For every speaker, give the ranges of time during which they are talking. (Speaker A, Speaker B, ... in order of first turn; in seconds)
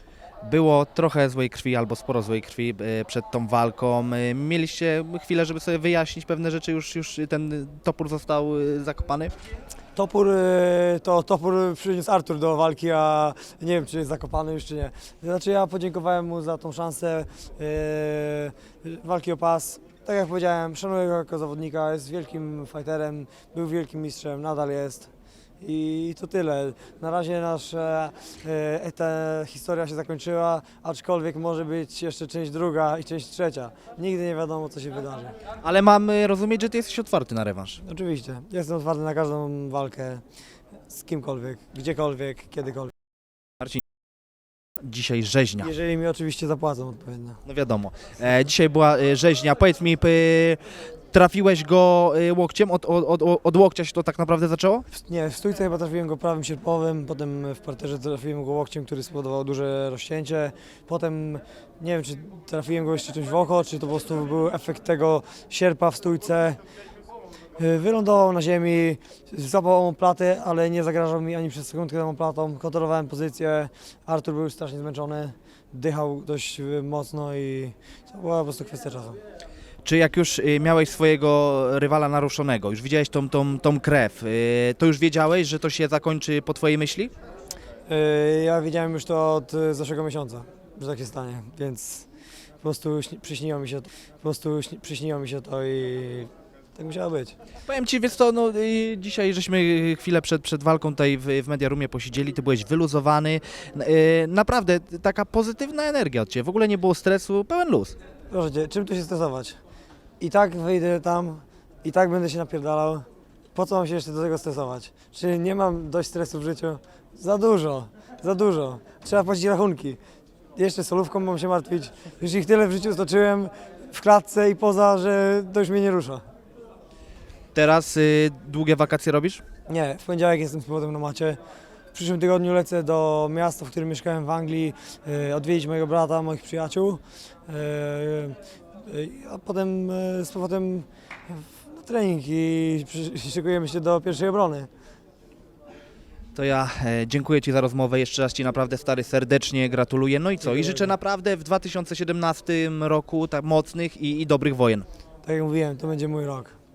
Speaker A: 0.4-9.3, 35.6-37.8, 44.8-45.7, 47.5-54.9, 79.8-87.1, 97.7-108.0, 127.5-129.4, 146.3-154.9
Speaker B: 9.9-25.1, 25.6-35.4, 37.8-40.2, 40.9-42.9, 45.6-47.4, 54.9-66.6, 67.6-79.2, 87.9-92.1, 92.6-97.4, 108.3-109.6, 110.2-120.0, 120.6-126.2, 129.7-131.4, 131.9-144.7, 150.4-150.9, 155.2-156.6